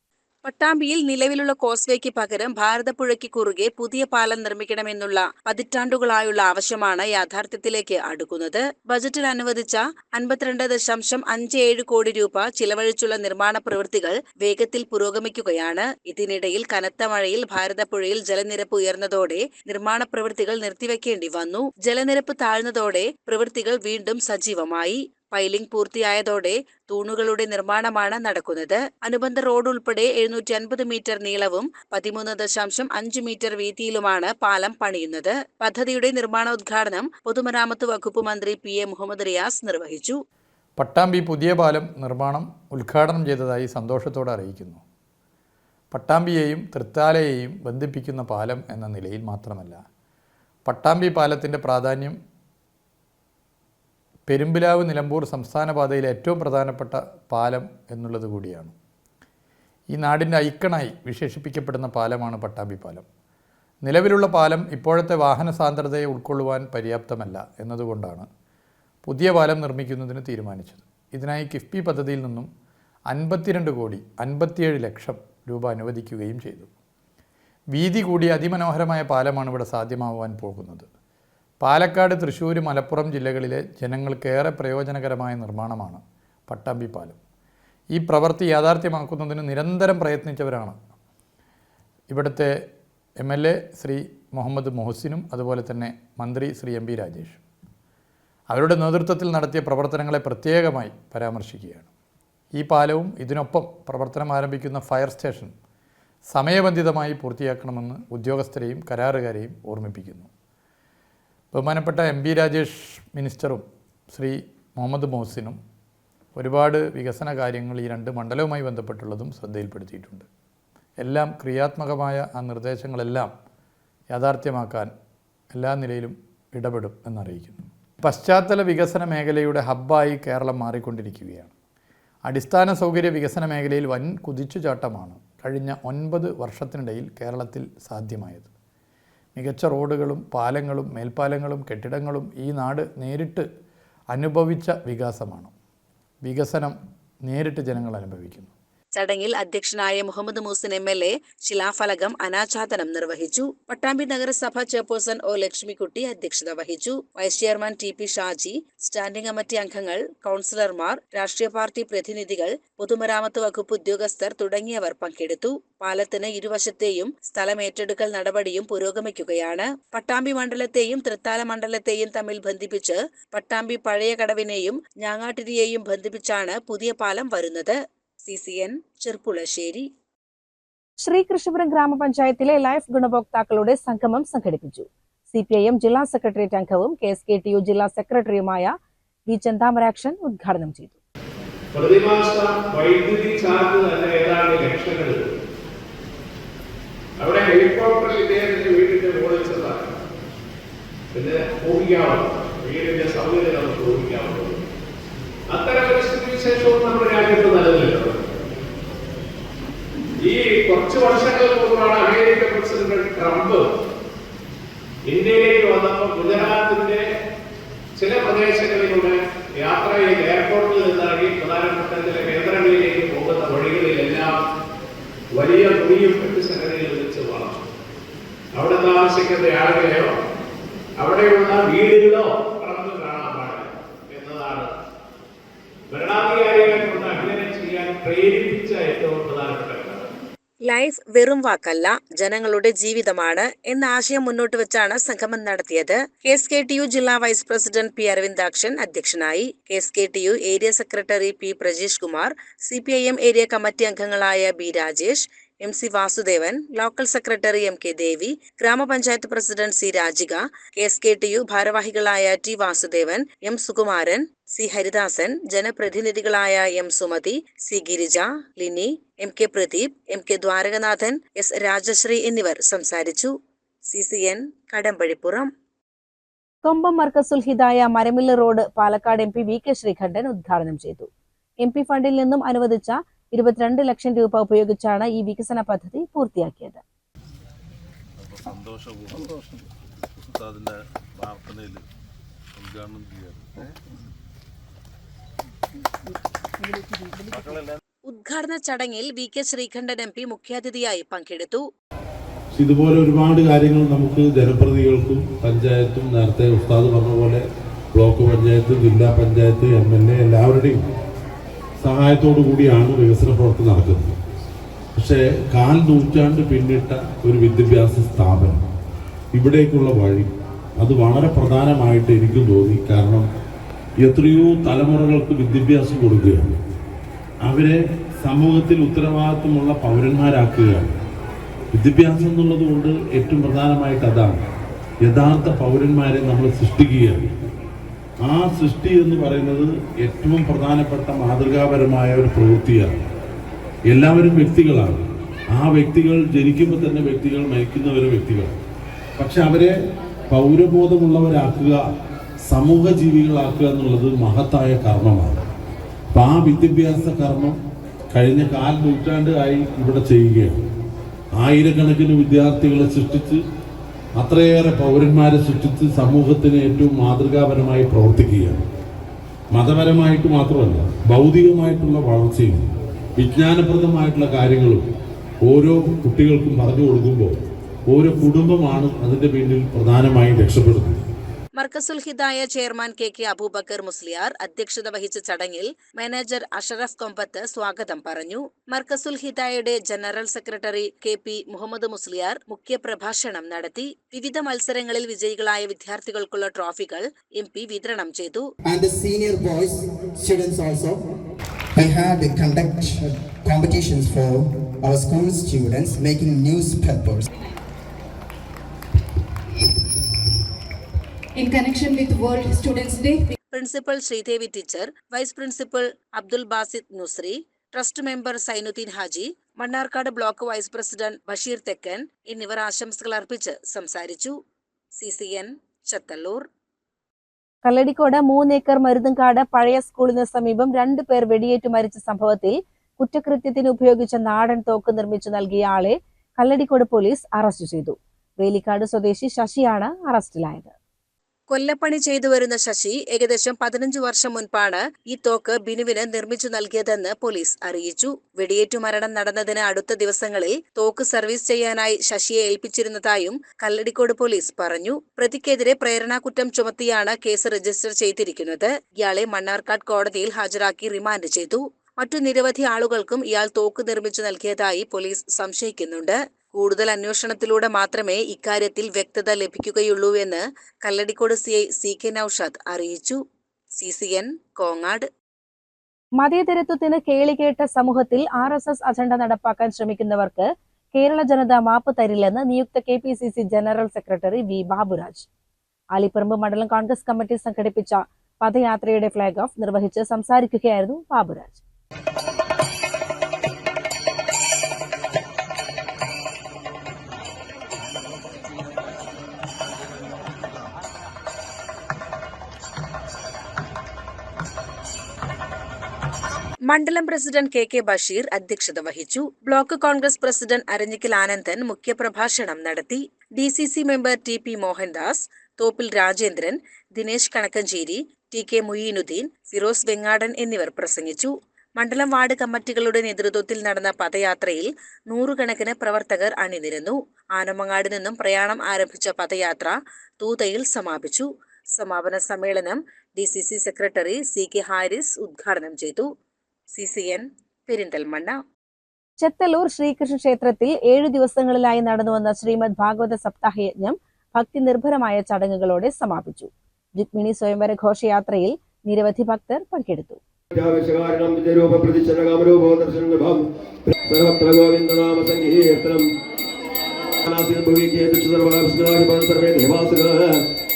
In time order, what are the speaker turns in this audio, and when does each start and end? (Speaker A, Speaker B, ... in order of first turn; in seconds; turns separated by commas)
Speaker A: 0.4-40.1, Speaker B: 40.8-44.8, Speaker B: 45.9-49.8, Speaker B: 50.6-52.2, Speaker B: 54.3-58.7, Speaker B: 59.9-63.0, Speaker B: 63.8-68.3, Speaker B: 69.0-72.5, Speaker B: 73.1-76.7, Speaker B: 77.7-80.9, Speaker B: 81.6-87.2, Speaker B: 87.9-90.8, Speaker B: 92.1-92.6, Speaker B: 93.2-97.4, Speaker B: 98.5-101.9, Speaker B: 102.5-105.5, Speaker B: 106.3-110.3, Speaker B: 111.5-115.6, Speaker B: 116.3-120.2, Speaker B: 121.0-123.3, Speaker B: 124.1-124.9, Speaker B: 125.5-131.5, Speaker B: 132.2-138.5, Speaker B: 139.3-143.5, Speaker B: 144.1-145.5, Speaker B: 146.2-148.5, Speaker A: 148.9-179.9, Speaker C: 181.0-188.7, Speaker C: 189.3-191.0, Speaker D: 191.7-195.2, Speaker D: 197.2-199.9, Speaker D: 201.1-204.6, Speaker D: 205.5-208.2, Speaker D: 210.2-213.6, Speaker D: 215.1-217.0, Speaker D: 218.0-224.3, Speaker D: 225.3-227.6, Speaker D: 228.5-230.1, Speaker D: 231.0-234.7, Speaker D: 235.9-240.1, Speaker A: 240.7-273.3, Speaker A: 273.9-275.5, Speaker C: 276.6-281.1, Speaker C: 281.6-286.8, Speaker E: 288.2-289.5, Speaker E: 290.1-291.8, Speaker E: 292.5-293.5, Speaker A: 298.0-301.6, Speaker E: 302.5-307.4, Speaker E: 307.9-310.8, Speaker E: 311.8-314.1, Speaker E: 315.0-318.6, Speaker E: 319.3-323.3, Speaker E: 324.0-326.6, Speaker E: 327.4-330.9, Speaker E: 331.7-334.4, Speaker E: 335.0-337.3, Speaker E: 338.2-342.9, Speaker E: 343.9-348.5, Speaker E: 349.2-349.7, Speaker E: 350.3-351.8, Speaker E: 352.5-355.4, Speaker E: 356.1-357.6, Speaker E: 358.1-360.6, Speaker E: 361.4-363.4, Speaker E: 364.2-368.6, Speaker E: 369.5-374.8, Speaker E: 375.4-377.4, Speaker E: 377.9-381.0, Speaker A: 381.6-398.5, Speaker F: 398.6-401.0, Speaker F: 401.7-407.2, Speaker G: 411.4-413.3, Speaker A: 413.5-424.4, Speaker A: 424.9-426.4, Speaker C: 427.6-440.7, Speaker A: 441.5-473.2, Speaker A: 473.8-475.1, Speaker C: 476.2-485.3, Speaker C: 485.9-491.6, Speaker A: 506.7-536.1, Speaker A: 536.7-538.4, Speaker C: 539.2-550.2, Speaker H: 550.5-553.4, Speaker H: 554.0-556.1, Speaker H: 557.2-560.4